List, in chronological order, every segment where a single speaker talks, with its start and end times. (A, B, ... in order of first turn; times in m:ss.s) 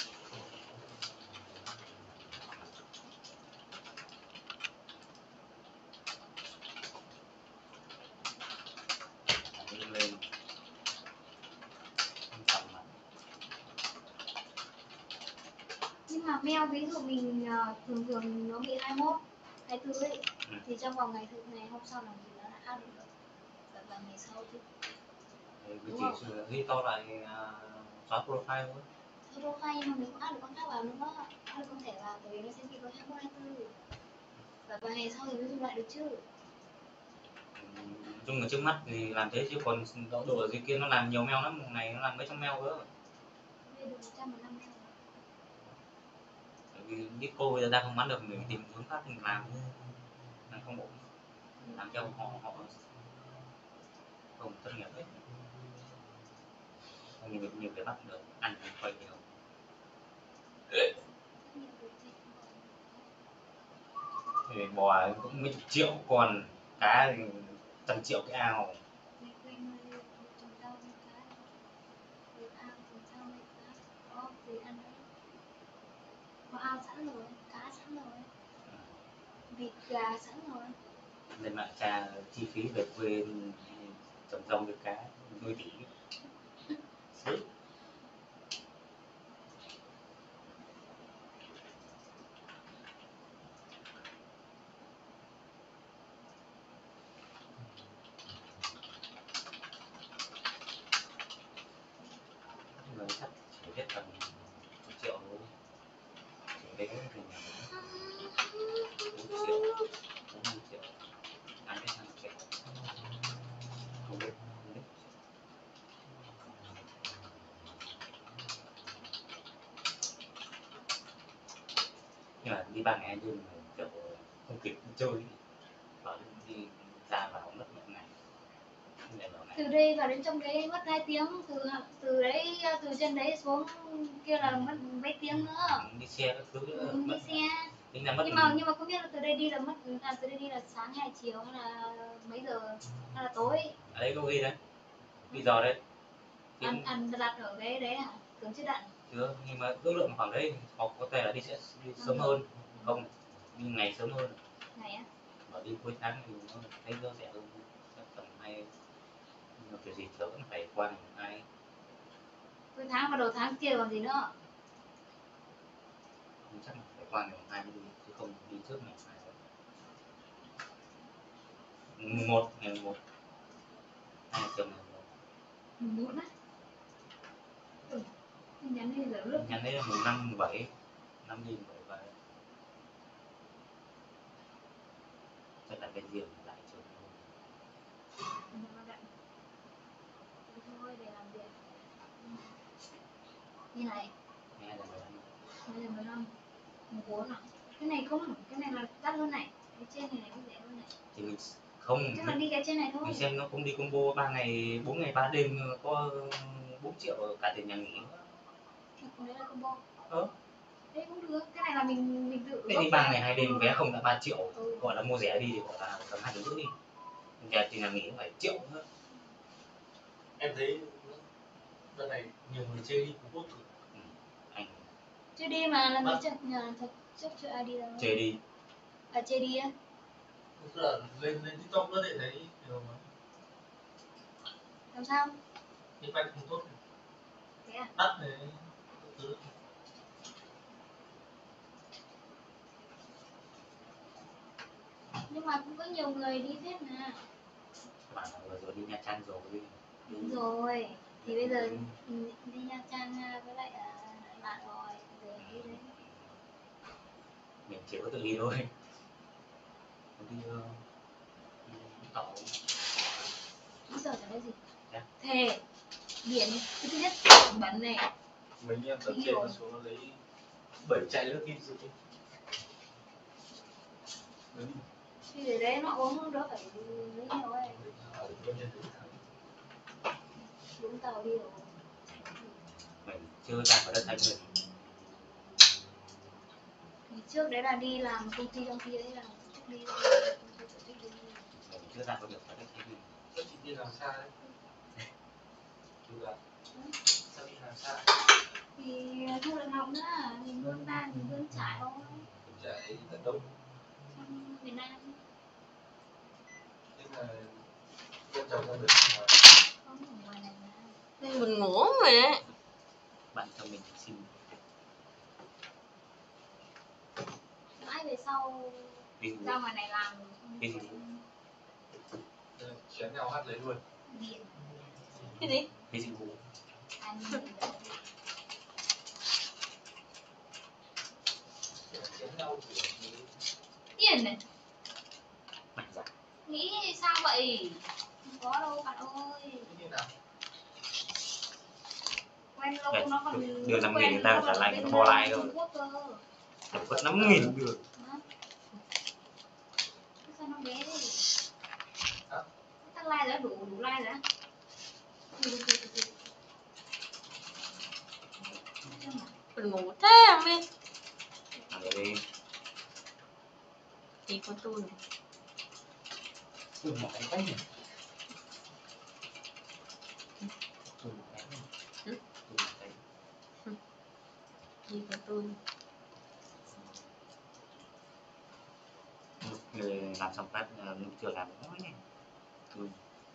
0:09.5-0:10.2 A
0:12.3-0:13.0 A
0:16.1-0:23.1 B
0:23.7-0:24.6 B
0:25.6-0:28.9 A
0:25.9-0:26.2 B
0:29.3-0:33.7 B
0:34.7-0:36.2 B
0:37.6-0:42.9 A
0:43.6-0:45.0 B
0:46.7-0:49.7 A
0:50.5-0:51.0 A
0:51.7-0:52.7 A
0:54.4-0:55.2 A
0:57.2-0:59.2 A
1:01.4-1:03.1 B
1:04.5-1:08.8 A
1:09.2-1:11.5 B
1:12.3-1:15.0 B
1:16.5-1:18.3 B
1:18.6-1:19.0 A
1:19.5-1:20.8 B
1:21.3-1:25.9 A
1:27.1-1:27.4 A
1:42.8-1:45.5 A
1:46.6-1:47.7 A
1:47.7-1:49.8 C
1:49.1-1:49.7 A
1:50.3-1:50.9 A
1:51.6-1:52.4 A
1:54.0-1:55.0 A
2:02.4-2:05.4 A
2:06.0-2:08.1 A
2:09.0-2:09.6 A
2:09.5-2:15.9 B
2:15.7-2:18.6 A
2:16.7-2:23.8 B
2:23.9-2:24.6 A
2:25.3-2:25.8 A
2:26.6-2:26.9 A
2:26.6-2:28.9 B
2:29.1-2:34.4 A
2:32.0-2:33.0 B
2:34.7-2:35.1 B
2:35.5-2:38.7 A
2:39.6-2:41.4 A
2:42.7-2:44.3 B
2:46.4-2:49.4 A
2:52.0-2:53.0 A
2:54.3-2:55.0 A
2:55.8-2:56.3 B
2:57.8-2:59.6 B
2:59.3-3:00.7 A
3:01.2-3:02.1 A
3:05.6-3:07.3 A
3:08.5-3:09.1 B
3:10.5-3:12.6 B
3:13.7-3:14.1 B
3:14.6-3:15.4 A
3:15.6-3:16.3 B
3:16.9-3:20.9 B
3:21.1-3:22.4 A
3:22.1-3:23.3 B
3:23.0-3:28.3 A
3:29.0-3:29.8 B
3:30.9-3:33.8 B
3:32.7-3:36.7 A
3:34.5-3:34.9 B
3:37.4-3:38.8 A
3:40.4-3:41.2 D
3:41.9-3:43.6 D
3:43.9-3:44.9 A
3:45.4-3:48.2 B
3:48.0-3:48.4 A
3:49.1-3:49.7 B
3:50.6-3:53.0 D
3:54.9-3:55.4 B
3:56.0-3:56.7 D
3:57.6-3:57.9 B
3:58.0-3:59.4 D
4:05.3-4:07.2 B
4:08.1-4:10.3 A
4:10.1-4:15.9 B
4:11.2-4:11.9 A
4:15.4-4:16.4 A
4:17.6-4:18.7 A
4:20.2-4:20.8 A
4:21.6-4:22.6 A
4:23.9-4:24.6 B
4:25.2-4:25.6 B
4:26.2-4:28.1 B
4:28.6-4:30.2 D
4:29.0-4:29.6 B
4:30.8-4:31.9 D
4:34.5-4:34.8 D
4:35.2-4:37.8 B
4:37.7-4:39.2 D
4:40.4-4:41.7 B
4:43.0-4:44.7 A
4:47.1-4:51.5 B
4:51.5-4:53.1 A
4:53.3-4:54.3 D
4:56.0-4:56.4 D
4:57.3-4:58.2 D
4:58.8-5:02.3 B
5:02.4-5:03.5 D
5:04.1-5:05.2 B
5:07.0-5:07.6 D
5:08.3-5:09.4 D
5:09.8-5:11.0 B
5:11.2-5:12.4 C
5:13.3-5:14.4 A
5:17.8-5:21.2 B
5:19.2-5:19.6 A
5:20.6-5:21.0 A
5:22.6-5:23.8 D
5:24.1-5:24.6 B
5:25.4-5:25.7 C
5:25.9-5:26.4 A
5:27.0-5:28.0 B
5:31.9-5:33.3 D
5:34.0-5:34.4 B
5:35.8-5:36.1 A
5:36.5-5:39.7 B
5:39.6-5:40.1 D
5:42.6-5:46.2 B
5:42.9-5:45.5 A
5:46.7-5:47.8 A
5:48.0-5:48.2 B
5:50.2-5:51.2 B
5:52.8-5:54.2 B
5:55.4-5:56.2 B
5:58.8-5:59.3 B
5:59.6-6:00.6 C
6:01.7-6:02.2 A
6:04.3-6:05.0 C
6:06.8-6:07.6 A
6:11.0-6:11.7 A
6:12.5-6:13.0 A
6:14.9-6:15.6 C
6:16.7-6:17.0 A
6:19.4-6:22.0 A
6:22.7-6:23.0 A